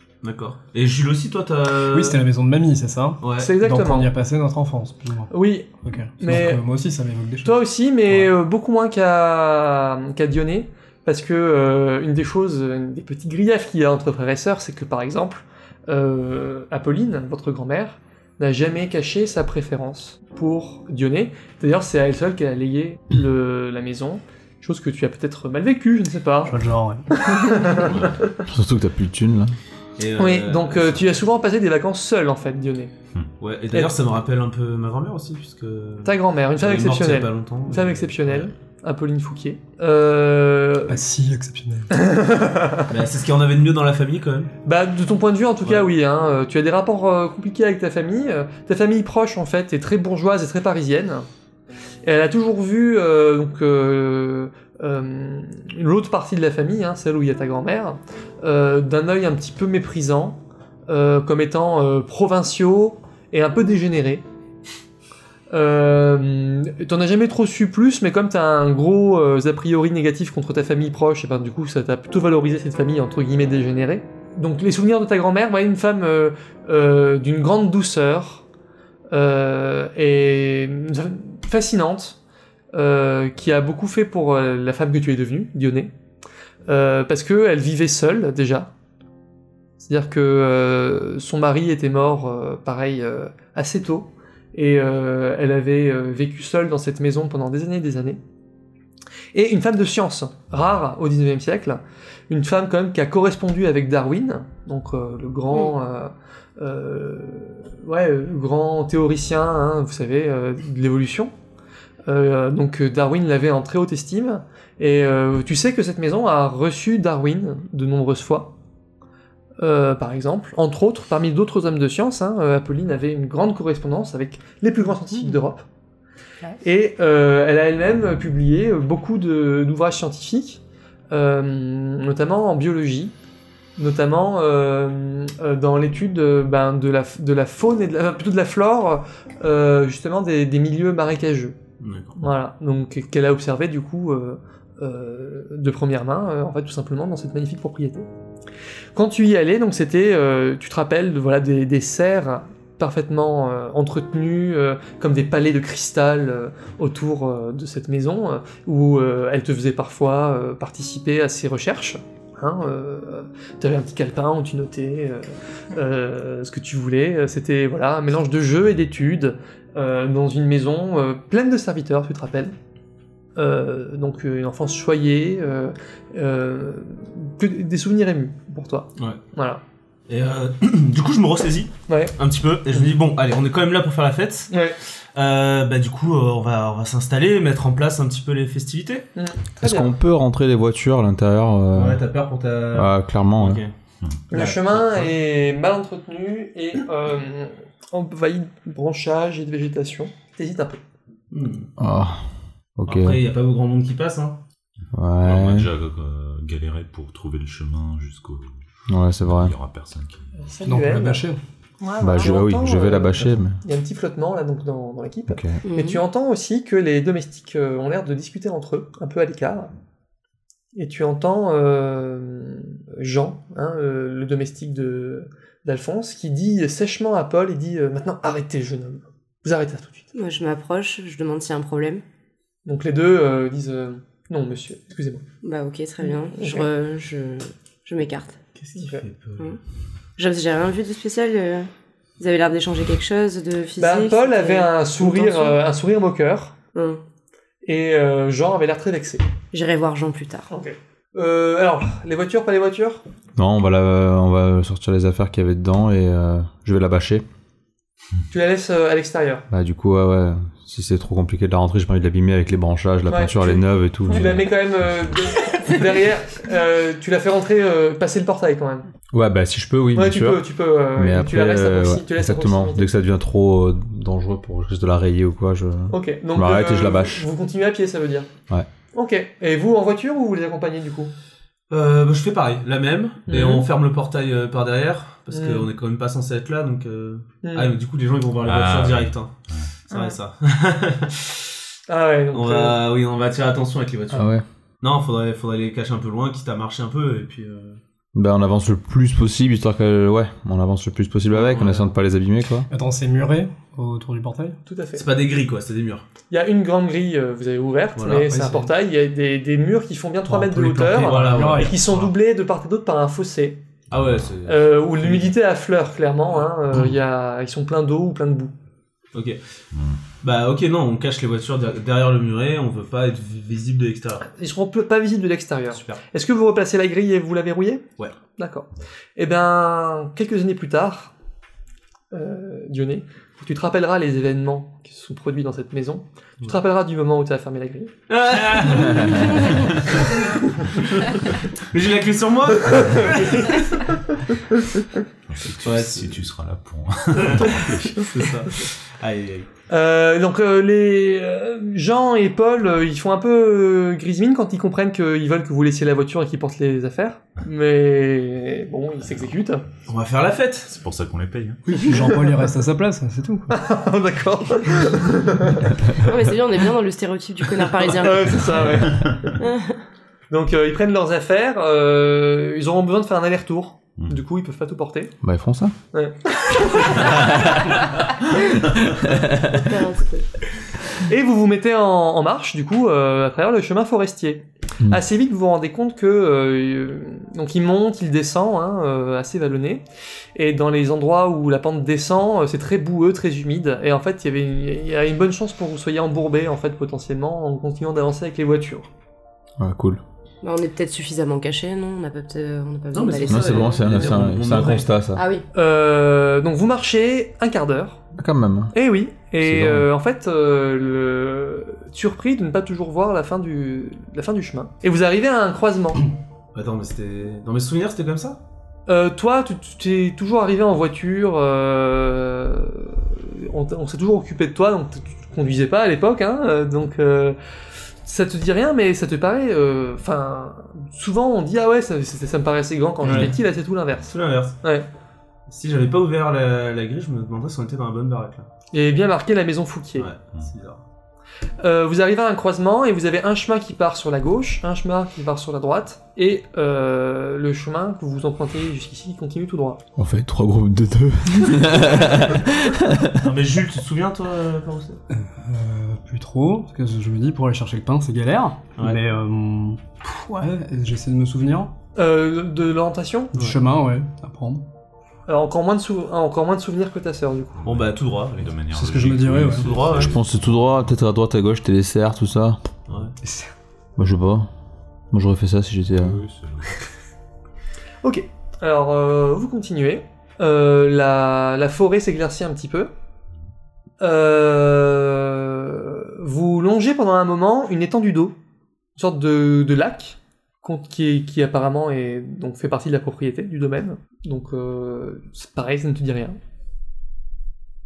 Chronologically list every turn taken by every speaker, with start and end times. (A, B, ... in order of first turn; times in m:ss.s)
0:00.2-0:02.2 A
0:01.9-0:05.3 B
0:03.2-0:03.5 A
0:03.4-0:04.1 C
0:05.3-0:06.6 C
0:05.8-0:07.6 B
0:07.4-0:26.6 C
0:26.5-0:27.1 B
0:27.1-0:28.3 C
0:27.8-0:28.1 D
0:28.5-0:29.6 E
0:30.0-0:31.1 A
0:30.2-0:32.9 C
0:33.4-0:38.5 A
0:36.0-0:41.0 C
0:40.9-0:41.9 B
0:41.9-0:42.9 C
0:42.9-0:44.5 A
0:44.6-0:51.3 C
0:45.6-0:45.9 A
0:52.0-1:04.2 C
1:05.5-1:18.4 C
1:19.1-1:22.2 C
1:22.7-1:25.9 C
1:26.7-1:28.7 C
1:29.8-1:38.2 C
1:39.3-1:51.3 C
1:52.1-1:58.5 C
1:59.6-2:05.6 C
2:06.6-2:13.1 C
2:13.8-2:21.6 C
2:21.8-2:22.2 A
2:22.2-2:28.1 C
2:29.0-2:52.6 C
2:53.4-2:59.6 C
3:00.1-3:04.5 A
3:01.9-3:02.2 C
3:04.5-3:04.8 C
3:05.2-3:09.1 A
3:09.2-3:09.9 C
3:09.6-3:12.0 E
3:11.7-3:13.7 A
3:12.7-3:13.6 E
3:14.3-3:15.1 A
3:14.3-3:20.8 C
3:21.3-3:21.7 A
3:21.8-3:22.2 E
3:22.8-3:23.2 E
3:22.9-3:24.4 A
3:24.9-3:25.7 E
3:25.2-3:28.5 D
3:28.9-3:29.5 E
3:29.2-3:30.3 D
3:30.4-3:31.2 C
3:30.6-3:31.4 B
3:31.8-3:39.7 C
3:32.0-3:33.6 E
3:35.3-3:35.6 E
3:35.6-3:36.0 F
3:40.8-3:50.0 C
3:50.1-3:52.0 F
3:52.7-3:55.2 C
3:55.4-3:58.4 F
3:56.0-3:56.7 C
3:58.6-3:59.6 A
3:58.8-3:59.0 C
4:00.2-4:05.6 F
4:03.8-4:06.6 C
4:06.8-4:07.0 F
4:07.6-4:09.2 C
4:09.5-4:10.5 F
4:10.5-4:13.0 C
4:13.4-4:17.2 E
4:18.3-4:19.4 C
4:19.5-4:24.5 E
4:23.1-4:28.9 C
4:29.1-4:37.3 E
4:29.9-4:32.9 C
4:35.9-4:38.3 C
4:38.9-4:41.1 C
4:41.7-4:51.4 A
4:43.3-4:43.7 C
4:45.3-4:45.7 C
4:47.4-4:47.7 C
4:48.4-4:49.7 D
4:51.9-4:52.8 C
4:52.3-4:54.3 A
4:54.1-4:54.4 E
4:54.8-4:57.8 A
4:58.2-5:02.7 E
5:01.3-5:01.9 A
5:02.7-5:04.6 B
5:04.7-5:05.0 C
5:05.0-5:06.1 A
5:06.3-5:13.6 C
5:08.0-5:08.2 A
5:08.1-5:08.7 B
5:10.3-5:12.0 B
5:11.0-5:12.1 A
5:13.9-5:14.5 D
5:13.9-5:15.3 A
5:14.5-5:18.5 C
5:19.1-5:19.4 A
5:19.7-5:20.0 D
5:20.2-5:24.3 A
5:24.3-5:27.8 C
5:25.7-5:26.0 A
5:28.4-5:31.1 C
5:32.1-5:37.9 C
5:38.1-5:40.2 A
5:39.5-5:39.8 D
5:40.8-5:43.9 A
5:42.7-5:43.6 C
5:45.3-5:48.0 D
5:45.6-5:46.2 A
5:47.2-5:49.5 A
5:49.7-5:59.6 C
5:59.9-6:00.7 A
6:00.7-6:01.6 D
6:01.7-6:03.5 B
6:03.5-6:05.7 C
6:06.0-6:08.5 F
6:07.8-6:09.3 C
6:08.7-6:09.4 D
6:09.4-6:09.8 F
6:10.3-6:15.1 C
6:15.2-6:15.8 E
6:15.9-6:17.2 C
6:19.0-6:19.3 E
6:19.6-6:20.2 F
6:21.0-6:29.8 C
6:30.4-6:38.9 C
6:39.6-6:40.0 E
6:40.4-6:44.1 F
6:42.9-6:44.9 A
6:43.3-6:45.2 E
6:45.2-6:45.5 F
6:45.5-6:48.0 C
6:48.2-6:48.7 E
6:48.7-6:56.1 C
6:49.4-6:49.9 E
6:56.5-6:58.4 A
6:58.9-7:07.4 C
7:08.0-7:14.9 C
7:13.0-7:13.4 A
7:14.1-7:14.6 A
7:15.5-7:18.5 A
7:18.7-7:20.1 C
7:20.0-7:20.8 A
7:21.6-7:29.8 C
7:30.0-7:33.3 E
7:33.2-7:35.0 A
7:35.2-7:41.7 B
7:42.0-7:43.3 C
7:43.3-7:44.6 B
7:45.3-7:47.6 C
7:47.6-7:51.0 D
7:47.6-7:48.5 A
7:48.7-7:49.9 B
7:49.6-7:50.2 A
7:50.0-7:52.6 E
7:52.9-7:53.2 A
7:53.2-7:53.5 B
7:54.0-7:54.5 E
7:55.1-7:56.2 E
7:56.0-7:56.8 D
7:58.0-8:02.9 C
8:04.0-8:08.4 C
8:09.0-8:16.4 C